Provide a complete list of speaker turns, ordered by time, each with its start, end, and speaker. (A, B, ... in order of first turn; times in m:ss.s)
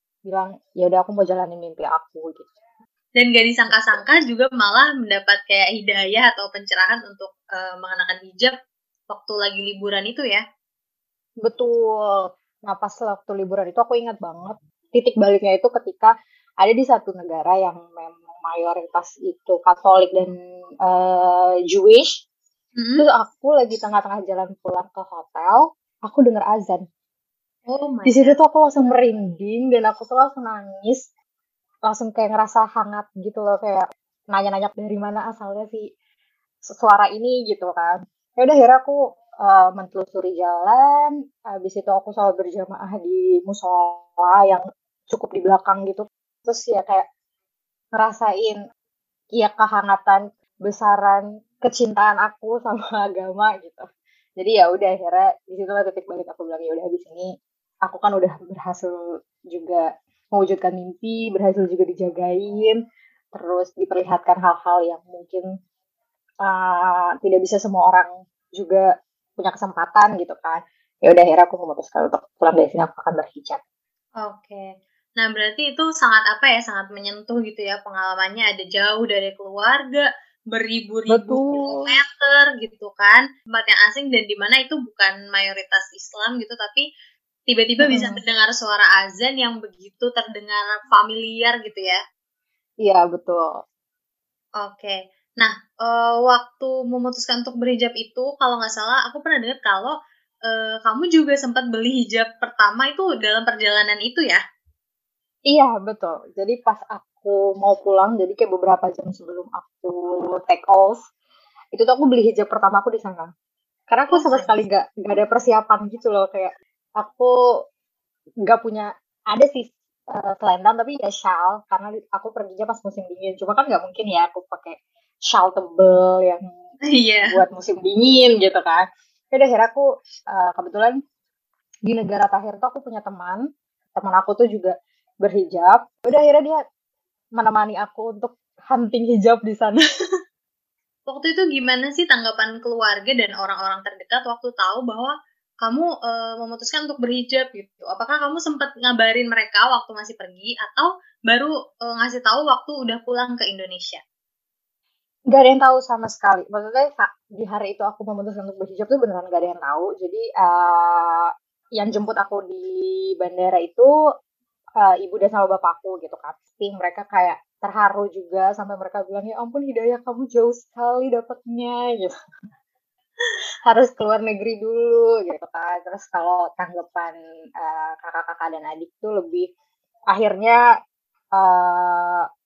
0:00.3-0:02.5 A
0:03.1-0:08.6 B
0:03.7-0:04.0 A
0:09.1-0:10.4 B
0:11.4-0:20.3 A
0:20.8-0:22.2 A
0:22.8-0:23.0 B
0:23.0-0:26.8 A
0:27.7-0:28.4 B
0:28.1-0:31.0 A
0:31.9-0:35.9 A
0:36.7-0:47.1 A
0:47.9-0:48.6 A
0:49.3-0:53.9 A
0:54.4-0:57.3 A
0:57.8-0:59.0 A
0:59.5-1:02.8 A
1:03.3-1:05.4 A
1:06.4-1:08.9 A
1:09.4-1:13.6 A
1:14.2-1:26.8 B
1:21.1-1:22.0 A
1:27.5-1:32.0 B
1:27.8-1:28.2 A
1:32.8-1:33.6 A
1:34.6-1:40.0 B
1:40.5-1:44.4 B
1:45.5-1:51.0 A
1:51.7-1:53.3 A
1:53.9-1:57.3 A
1:54.1-1:54.6 B
1:58.4-2:04.8 A
2:05.3-2:06.5 A
2:06.8-2:07.4 B
2:07.2-2:11.0 A
2:11.9-2:13.4 A
2:14.0-2:16.6 A
2:17.4-2:19.8 A
2:21.1-2:34.0 B
2:35.3-2:43.9 A
2:44.8-2:52.1 A
2:53.7-2:59.5 A
3:00.1-3:00.6 A
3:01.3-3:02.3 A